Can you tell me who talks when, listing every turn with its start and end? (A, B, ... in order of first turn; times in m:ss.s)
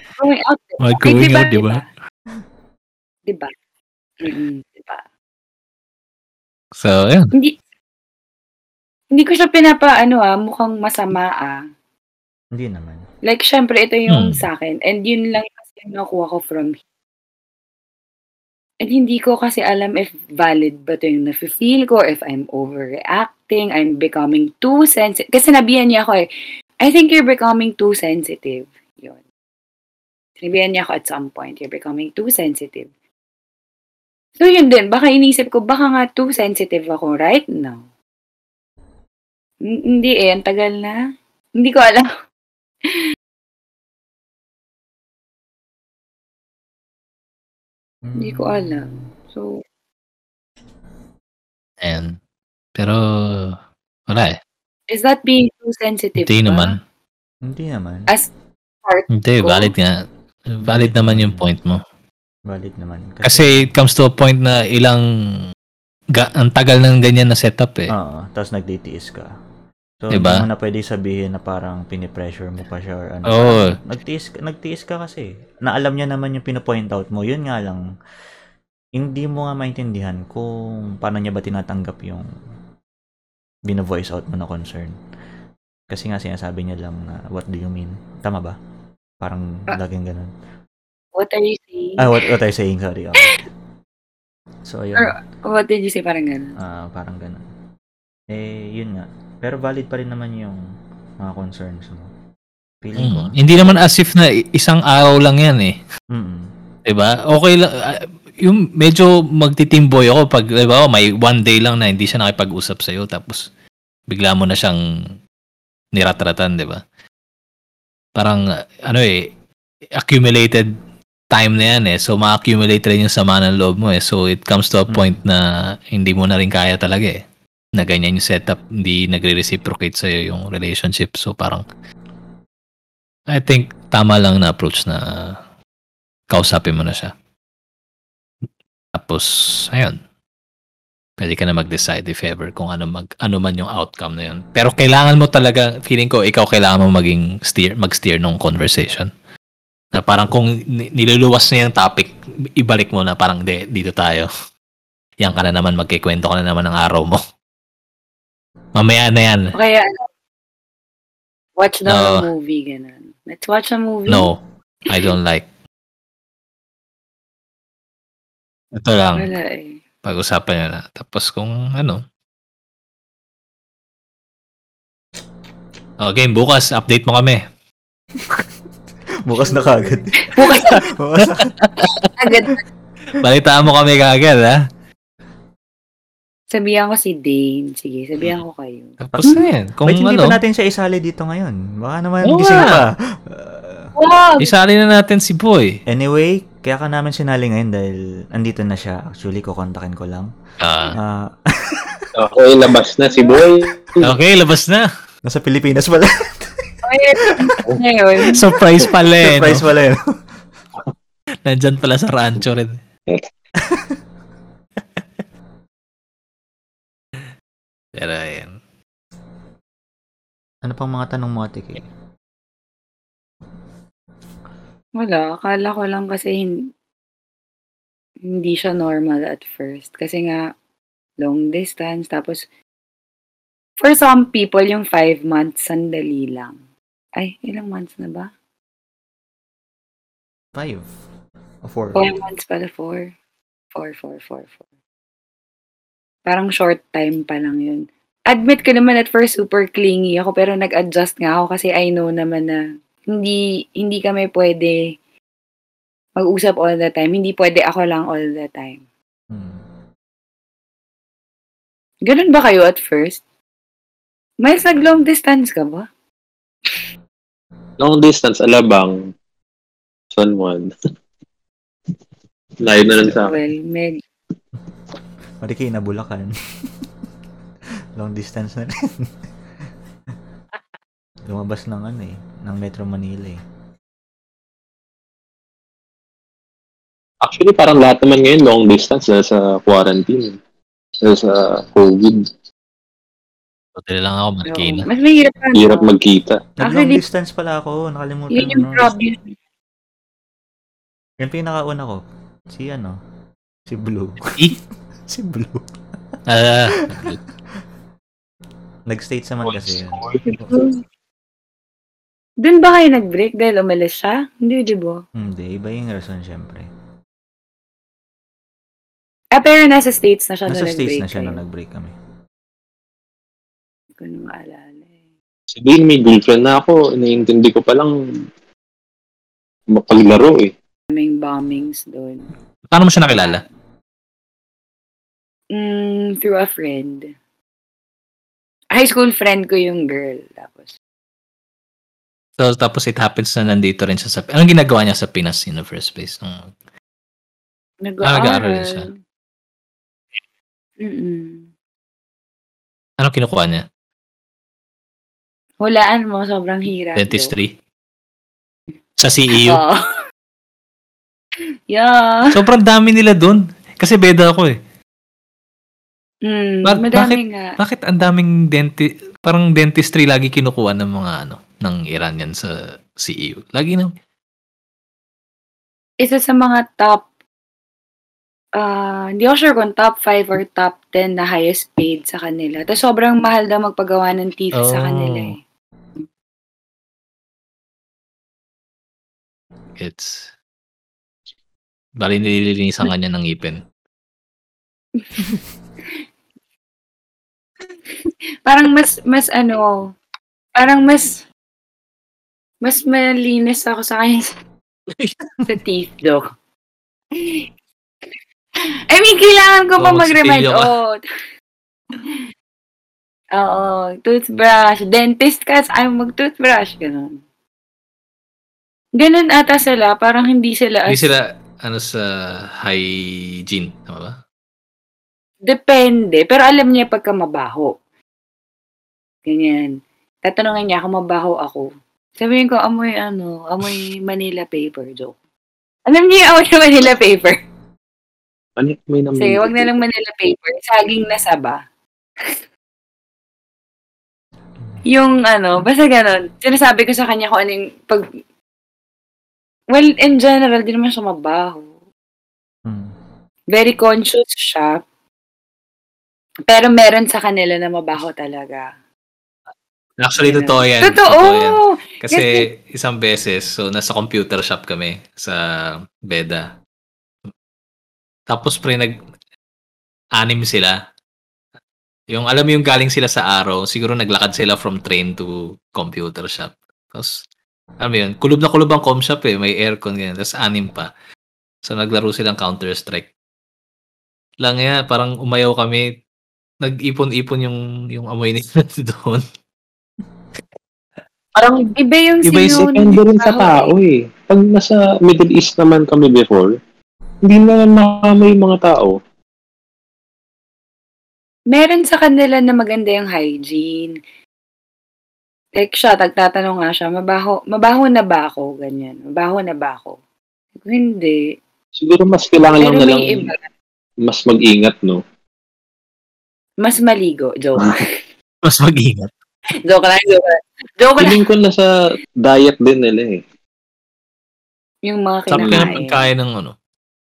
0:00.2-0:01.8 A
0:00.8-0:01.8 B
0:03.3-0:03.5 A
0:04.2-0:05.0 A
0:06.8-0:07.3 B
0:09.1-0:11.6 A
0:12.5-0:13.0 C
0:13.2-0:16.8 A
0:14.1-0:14.3 B
0:18.8-0:26.3 A
0:26.8-0:29.2 A
0:30.4-0:32.9 A
0:34.4-0:37.8 A
0:39.7-0:41.0 A
0:41.6-0:42.1 A
0:48.0-0:49.1 C
0:48.2-0:49.6 A
0:51.8-0:52.2 B
0:52.8-0:53.6 B
0:54.1-0:54.4 B
0:54.9-0:56.8 A
0:56.2-0:56.8 B
0:57.4-0:58.1 C
0:58.8-0:59.7 A
0:59.2-1:00.0 B
1:00.5-1:01.8 B
1:00.6-1:01.4 C
1:02.5-1:03.7 C
1:03.2-1:05.0 B
1:06.1-1:07.9 B
1:07.9-1:09.3 C
1:10.0-1:17.8 C
1:10.1-1:10.4 B
1:13.3-1:13.7 B
1:19.0-1:22.3 C
1:23.7-1:24.9 C
1:25.9-1:28.6 C
1:29.2-1:30.3 C
1:31.2-1:32.0 A
1:32.0-1:33.4 C
1:34.7-1:35.1 C
1:35.0-1:36.5 A
1:36.6-1:37.4 C
1:38.3-1:40.6 C
1:41.2-1:42.1 C
1:42.8-1:43.8 C
1:43.0-1:45.8 B
1:46.1-1:46.5 C
1:46.9-1:53.4 B
1:54.1-1:54.8 B
1:55.9-1:56.8 B
1:58.2-1:59.3 B
2:00.0-2:00.7 B
2:01.3-2:07.2 B
2:04.9-2:05.2 C
2:07.8-2:11.6 B
2:13.3-2:15.3 B
2:16.3-2:17.1 B
2:18.9-2:20.0 B
2:21.2-2:29.1 B
2:29.9-2:34.3 B
2:35.2-2:37.2 B
2:38.8-2:39.5 B
2:39.5-2:40.0 A
2:41.6-2:44.3 A
2:41.9-2:42.2 B
2:44.1-2:45.5 B
2:48.7-2:49.3 B
2:49.2-2:49.8 A
2:50.0-2:52.0 B
2:56.0-2:57.4 B
2:59.2-3:01.5 C
2:59.5-3:00.8 A
3:01.6-3:01.9 B
3:02.2-3:02.6 A
3:03.2-3:04.5 B
3:06.5-3:09.0 A
3:09.0-3:10.4 B
3:09.2-3:13.9 C
3:12.2-3:12.8 B
3:14.0-3:14.5 A
3:14.4-3:15.8 B
3:15.9-3:20.3 C
3:20.6-3:21.0 B
3:21.0-3:22.1 C
3:22.1-3:24.1 D
3:24.0-3:24.9 B
3:25.2-3:26.7 C
3:26.8-3:28.4 A
3:27.3-3:27.6 C
3:28.3-3:29.6 B
3:28.8-3:30.0 C
3:31.4-3:32.8 B
3:33.7-3:34.0 C
3:38.0-3:38.5 B
3:40.6-3:41.8 C
3:45.0-3:46.5 A
3:48.3-3:50.4 A
3:51.2-3:52.4 A
3:53.8-3:56.5 A
3:57.2-3:58.3 A
4:00.5-4:00.9 C
4:01.6-4:02.1 C
4:01.9-4:03.1 A
4:03.7-4:04.6 A
4:06.3-4:12.6 A
4:13.1-4:14.8 A
4:16.2-4:18.8 A
4:19.3-4:19.6 C
4:22.0-4:23.2 A
4:24.4-4:25.8 A
4:27.8-4:29.0 D
4:30.1-4:30.7 D
4:32.6-4:33.4 D
4:33.1-4:34.0 A
4:35.4-4:36.3 C
4:38.0-4:39.1 C
4:41.3-4:43.4 C
4:47.2-4:50.4 D
4:51.0-4:52.2 D
4:53.8-4:54.9 B
4:54.5-4:55.9 A
4:55.5-4:56.4 D
4:56.6-4:59.0 C
4:56.6-4:57.0 A
4:58.3-4:59.3 A
5:01.2-5:03.0 C
5:03.7-5:04.4 C
5:05.1-5:05.7 C
5:06.3-5:07.2 B
5:06.9-5:07.2 C
5:08.9-5:10.4 C
5:09.4-5:10.2 D
5:10.2-5:10.8 A
5:12.4-5:15.0 A
5:15.2-5:16.7 C
5:19.3-5:21.4 A
5:20.5-5:21.9 C
5:24.0-5:24.9 A
5:25.5-5:27.9 D
5:29.7-5:30.5 D
5:30.9-5:32.3 A
5:32.7-5:33.4 B
5:35.5-5:37.1 A
5:38.7-5:40.7 A
5:42.4-5:46.5 B
5:47.8-5:49.0 A
5:48.0-5:48.9 B
5:50.8-5:51.4 A
5:53.0-5:53.6 B
5:55.6-5:57.3 A
5:57.0-5:57.5 B
5:59.0-5:59.6 B
5:59.3-5:59.9 A
6:01.7-6:02.3 A
6:02.3-6:04.6 B
6:06.2-6:07.6 A
6:06.6-6:13.9 B
6:16.0-6:17.0 A
6:18.6-6:25.4 A
6:24.6-6:25.3 B
6:29.8-6:30.3 B
6:32.0-6:33.6 B
6:38.4-6:40.0 A
6:40.6-6:41.2 A
6:42.6-6:44.3 A
6:45.0-6:45.4 B
6:45.4-6:46.2 A
6:47.2-6:47.4 A
6:48.9-6:51.0 A
6:49.8-6:50.7 B
6:53.3-6:57.1 A
6:59.0-7:01.1 A
7:00.9-7:04.2 B
7:05.5-7:07.7 A
7:09.2-7:09.7 A
7:10.2-7:11.7 A
7:12.2-7:15.1 A
7:15.9-7:17.4 A
7:18.6-7:19.7 D
7:19.2-7:21.6 A
7:24.9-7:28.0 A
7:29.7-7:31.7 A
7:32.6-7:32.9 C
7:33.5-7:34.8 A
7:36.5-7:38.7 A
7:40.0-7:46.5 B
7:40.2-7:42.4 A
7:48.3-7:48.9 B
7:50.2-7:50.7 B
7:52.1-7:57.1 B
7:57.8-8:00.9 B
8:01.6-8:03.1 B
8:04.4-8:05.8 B
8:06.6-8:09.2 B
8:11.4-8:11.8 D
8:11.8-8:13.7 A
8:12.3-8:12.7 B
8:12.4-8:16.6 D
8:17.2-8:19.0 D
8:21.5-8:23.9 A
8:25.6-8:30.0 A
8:30.6-8:31.2 A
8:31.8-8:33.3 D
8:32.6-8:33.4 A
8:34.0-8:35.0 D
8:36.6-8:37.9 A
8:38.4-8:39.1 B
8:39.6-8:41.2 A
8:41.0-8:41.7 D
8:42.2-8:43.2 D
8:44.8-8:46.0 A
8:45.3-8:46.5 B
8:45.4-8:45.8 D